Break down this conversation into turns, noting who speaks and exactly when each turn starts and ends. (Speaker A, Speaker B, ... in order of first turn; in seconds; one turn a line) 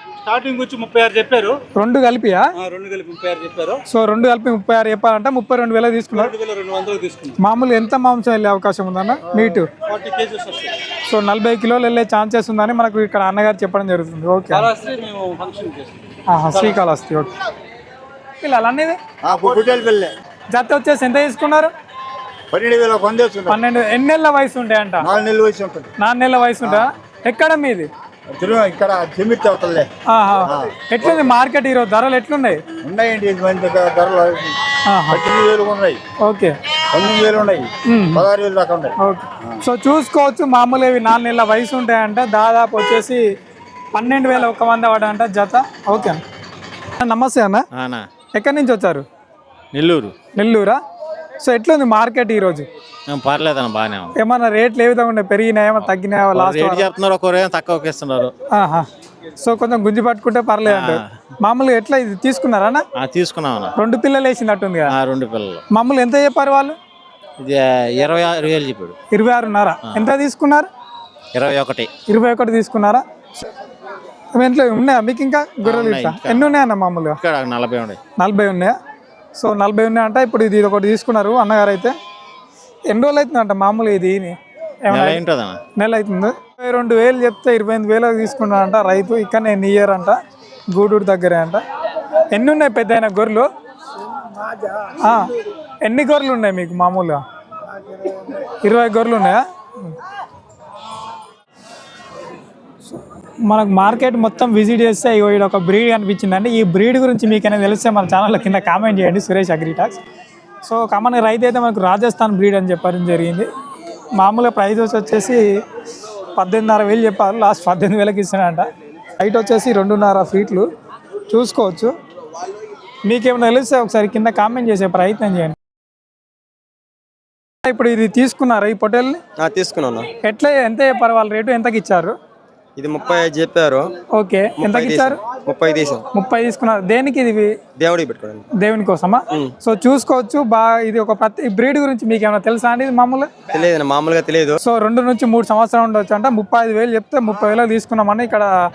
Speaker A: 0.2-1.6
Speaker B: 1.7-2.5
Speaker A: 2.6-3.8
Speaker B: 3.9-6.3
Speaker A: 6.2-7.3
Speaker B: 7.4-9.7
Speaker C: 9.3-9.6
Speaker A: 9.8-10.7
Speaker B: 11.1-14.7
Speaker A: 14.6-15.9
Speaker B: 16.3-17.3
Speaker B: 18.4-19.0
Speaker C: 19.2-20.1
Speaker B: 20.5-21.7
Speaker C: 22.5-23.6
Speaker B: 23.5-25.1
Speaker C: 25.0-25.9
Speaker B: 26.0-27.9
Speaker C: 28.4-29.9
Speaker B: 30.1-32.6
Speaker C: 30.4-31.0
Speaker C: 32.8-36.0
Speaker B: 34.9-35.2
Speaker B: 36.2-36.5
Speaker C: 36.9-39.6
Speaker B: 37.9-38.3
Speaker B: 39.0-43.2
Speaker B: 43.9-46.2
Speaker B: 47.0-47.6
Speaker D: 47.7-48.0
Speaker B: 48.3-49.0
Speaker D: 49.7-50.1
Speaker B: 50.3-50.8
Speaker B: 51.4-52.6
Speaker D: 53.1-54.1
Speaker B: 54.1-56.9
Speaker D: 56.3-58.3
Speaker B: 58.5-58.9
Speaker B: 59.4-62.8
Speaker D: 60.6-61.1
Speaker D: 63.0-63.7
Speaker B: 63.8-64.9
Speaker D: 64.9-65.6
Speaker B: 65.7-66.8
Speaker D: 67.4-68.9
Speaker B: 69.1-70.7
Speaker D: 71.3-71.9
Speaker B: 72.1-73.4
Speaker B: 74.3-77.2
Speaker D: 75.6-76.5
Speaker D: 77.2-78.0
Speaker B: 78.2-78.7
Speaker B: 79.3-81.9
Speaker B: 82.9-85.2
Speaker D: 84.9-85.6
Speaker B: 85.8-90.2
Speaker B: 90.7-91.6
Speaker B: 92.3-93.5
Speaker B: 95.0-95.3
Speaker B: 95.8-97.2
Speaker B: 98.3-100.0
Speaker B: 102.8-110.0
Speaker B: 110.6-113.5
Speaker B: 114.2-115.5
Speaker B: 116.3-118.7
Speaker B: 119.2-120.7
Speaker B: 121.3-121.9
Speaker B: 123.0-125.6
Speaker B: 127.6-129.2
Speaker E: 129.4-130.1
Speaker B: 130.2-132.1
Speaker E: 132.8-133.9
Speaker B: 134.2-135.2
Speaker E: 134.6-136.0
Speaker B: 136.1-137.5
Speaker E: 137.8-138.4
Speaker B: 138.6-143.3
Speaker E: 143.5-144.6
Speaker B: 144.6-148.5